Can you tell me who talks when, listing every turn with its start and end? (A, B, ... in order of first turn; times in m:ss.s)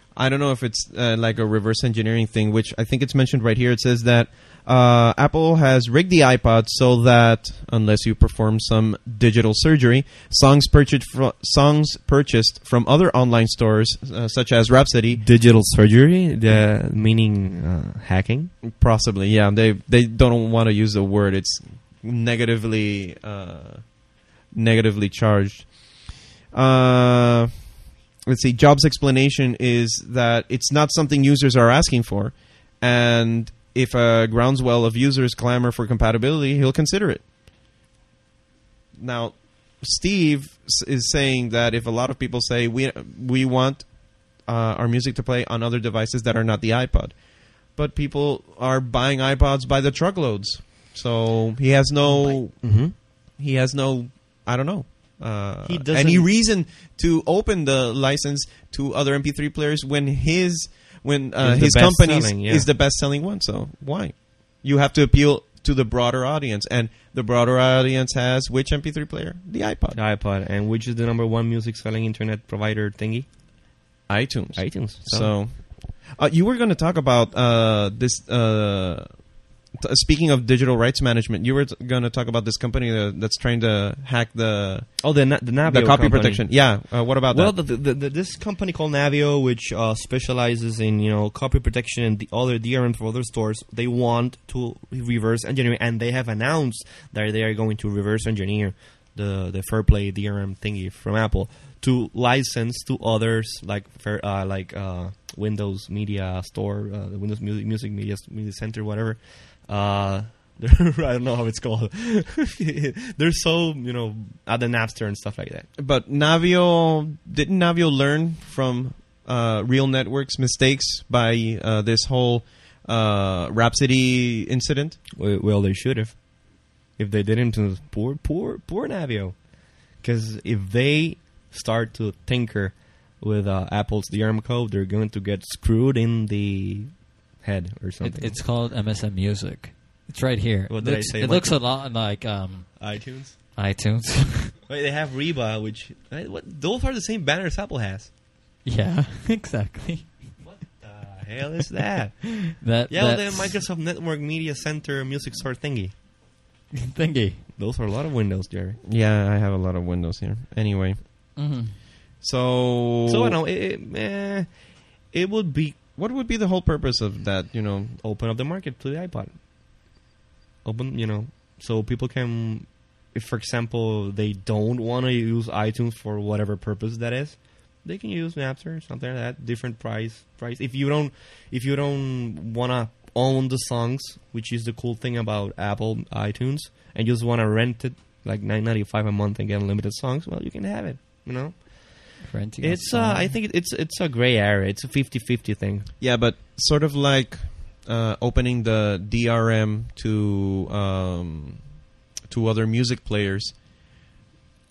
0:00.1-0:15.2 A
0:15.1-0:18.5 B
0:18.6-0:24.0 A
0:24.5-0:27.6 A
0:28.2-0:37.2 A
0:39.0-1:10.0 A
0:52.6-0:52.9 B
0:55.6-0:56.3 B
1:01.4-1:02.7 B
1:09.9-1:13.3 B
1:14.1-1:27.6 A
1:14.6-1:15.4 B
1:25.0-1:55.7 B
1:55.8-2:05.0 A
2:05.2-2:18.4 B
2:18.0-2:23.0 C
2:20.7-2:21.6 B
2:22.8-2:23.4 B
2:23.5-2:24.5 C
2:24.7-2:28.1 B
2:28.6-2:30.2 C
2:30.4-2:35.9 B
2:32.6-2:33.6 C
2:36.8-2:37.4 C
2:37.6-2:38.8 B
2:38.8-2:41.0 A
2:41.4-2:41.7 C
2:42.2-2:43.4 A
2:43.1-2:45.8 B
2:46.0-2:48.0 A
2:48.0-2:49.3 B
2:50.6-3:15.9 B
3:12.2-3:13.3 C
3:16.0-3:21.7 A
3:22.2-3:23.5 A